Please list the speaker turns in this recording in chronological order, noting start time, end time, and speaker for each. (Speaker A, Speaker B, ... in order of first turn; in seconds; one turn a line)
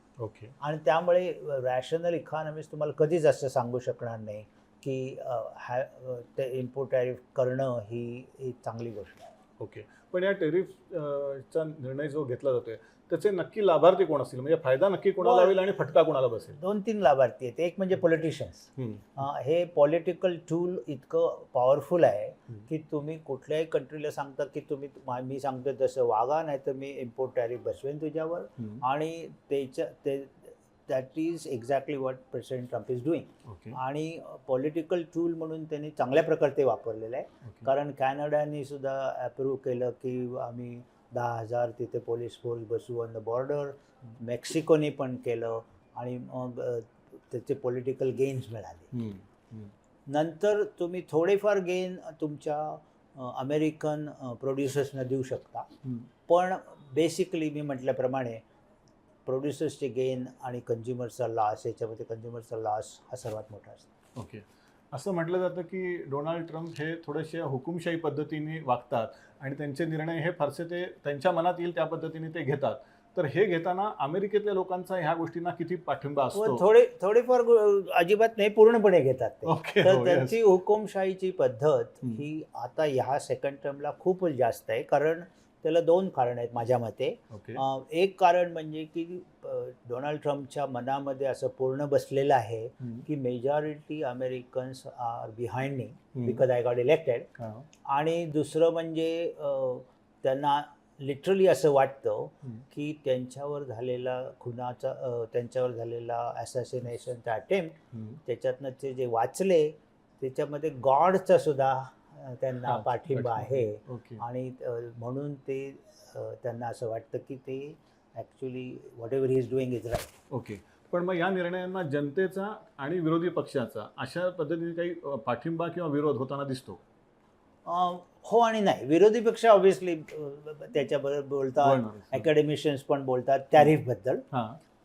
Speaker A: 0.2-0.5
Speaker B: 0.6-9.3
Speaker A: 9.6-16.6
Speaker B: 15.2-15.7
Speaker B: 16.5-48.9
Speaker A: 18.8-19.1
Speaker A: 33.4-33.8
Speaker A: 48.9-49.7
Speaker B: 50.1-55.7
Speaker B: 56.3-58.4
Speaker B: 59.3-63.9
Speaker A: 64.2-76.7
Speaker B: 76.3-97.3
Speaker A: 79.5-80.4
Speaker A: 87.3-87.6
Speaker A: 96.2-96.4
Speaker A: 97.4-97.7
Speaker B: 97.8-120.2
Speaker A: 107.9-108.2
Speaker A: 112.6-114.2
Speaker A: 120.3-126.8
Speaker B: 127.7-134.2
Speaker A: 131.6-132.3
Speaker A: 134.3-134.6